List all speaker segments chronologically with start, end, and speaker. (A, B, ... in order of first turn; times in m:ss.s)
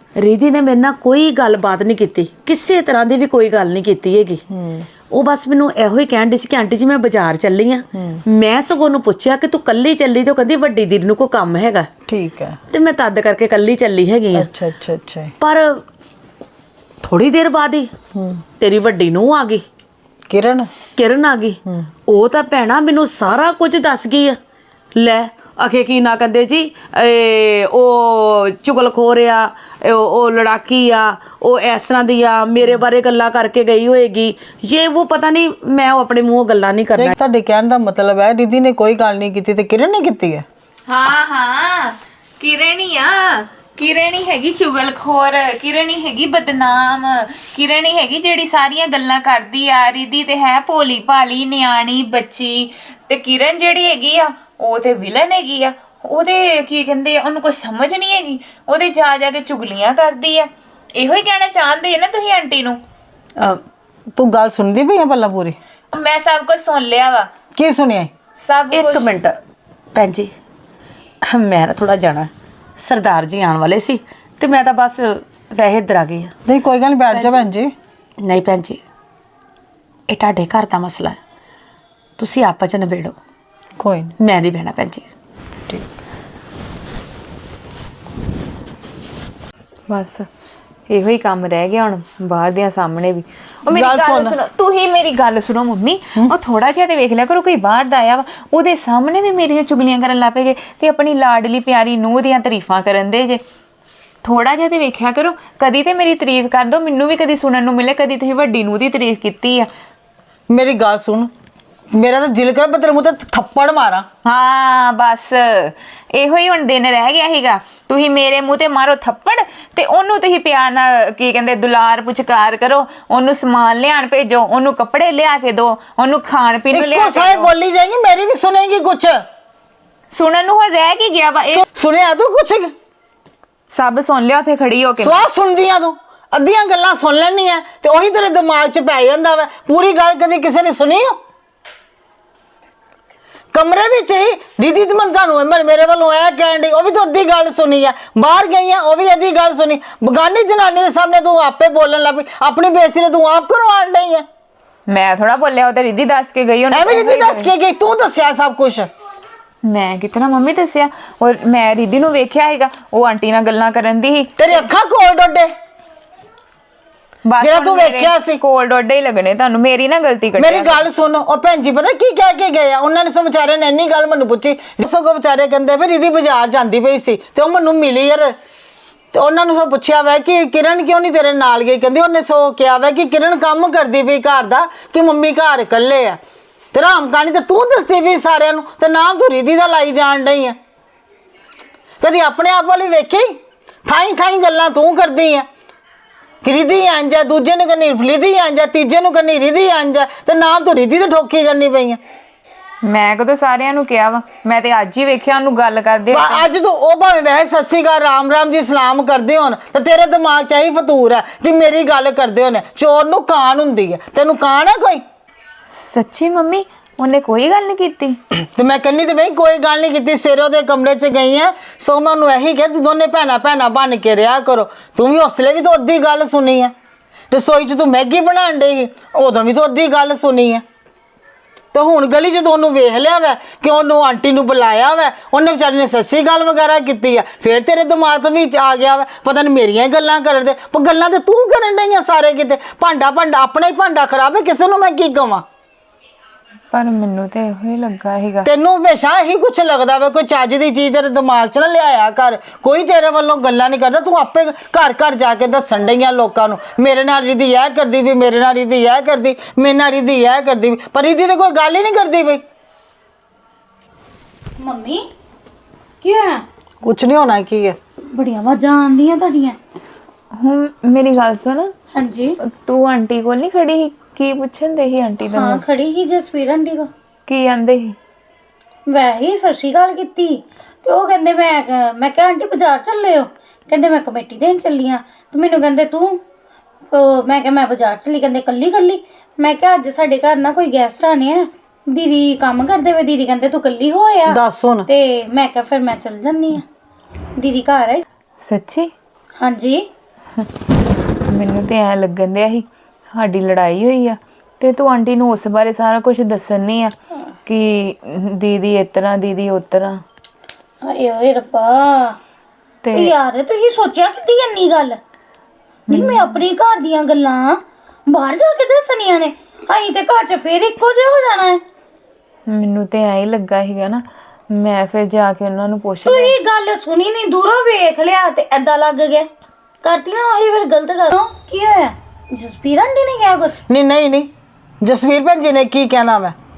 0:00.2-0:04.4 A
0:04.5-0:04.9 B
0:05.1-0:11.9 A
0:08.0-0:08.2 B
0:12.1-0:12.6 B
0:12.7-0:14.5 A
0:14.3-0:15.3 B
0:15.4-0:15.8 A
0:17.0-0:17.9 A
0:18.1-0:18.4 B
0:18.6-0:19.6 A
0:20.3-0:20.7 B
0:21.0-0:24.4 A
0:25.0-0:37.2 A
0:37.0-0:40.4 B
0:40.9-1:02.8 C
1:04.2-1:05.6 B
1:05.9-1:07.3 C
1:07.6-1:08.1 B
1:08.4-1:09.1 C
1:08.7-1:09.4 A
1:10.0-1:10.3 A
1:11.2-1:16.3 A
1:16.5-1:17.7 B
1:18.2-1:18.8 A
1:20.1-1:21.2 A
1:22.2-1:23.2 A
1:23.8-1:24.2 B
1:24.2-1:25.0 A
1:29.9-1:30.3 C
1:30.9-1:43.4 C
1:33.7-1:34.4 B
1:44.2-1:49.7 C
1:50.5-1:51.3 B
1:51.9-1:54.1 B
1:54.2-2:07.5 C
2:06.7-2:09.2 B
2:10.1-2:11.6 C
2:11.5-2:12.7 B
2:13.7-2:15.2 C
2:15.0-2:21.2 B
2:23.5-2:34.3 B
2:34.9-2:37.5 C
2:36.7-2:38.9 B
2:39.6-2:44.7 C
2:44.4-2:45.5 B
2:47.3-2:50.8 C
2:47.4-2:48.4 B
2:50.4-2:58.4 B
2:59.1-3:06.2 B
3:06.7-3:10.6 B
3:12.0-3:15.5 B
3:16.4-3:22.0 B
3:22.8-3:26.5 C
3:26.1-3:35.0 B
3:35.7-3:38.2 C
3:38.3-3:46.7 B
3:47.3-3:50.6 B
3:51.7-4:05.4 B
4:06.7-4:08.5 C
4:08.4-4:22.4 B
4:24.6-4:25.1 D
4:26.0-4:26.4 D
4:26.8-4:27.8 B
4:28.1-4:29.6 D
4:30.4-4:31.7 C
4:32.0-4:32.4 D
4:32.4-4:35.6 C
4:35.3-4:36.9 D
4:37.3-4:38.0 C
4:38.9-4:46.2 D
4:46.9-4:56.6 D
4:54.3-4:54.9 B
4:57.4-4:58.0 D
4:58.4-4:58.9 C
4:59.4-4:59.9 D
5:01.3-5:06.9 C
5:07.5-5:10.0 C
5:10.8-5:12.2 D
5:12.8-5:13.1 C
5:12.9-5:15.0 D
5:15.9-5:16.4 C
5:15.9-5:21.6 D
5:22.5-5:26.4 C
5:26.1-5:29.3 D
5:29.8-5:33.6 D
5:33.7-5:34.3 B
5:34.8-5:36.4 B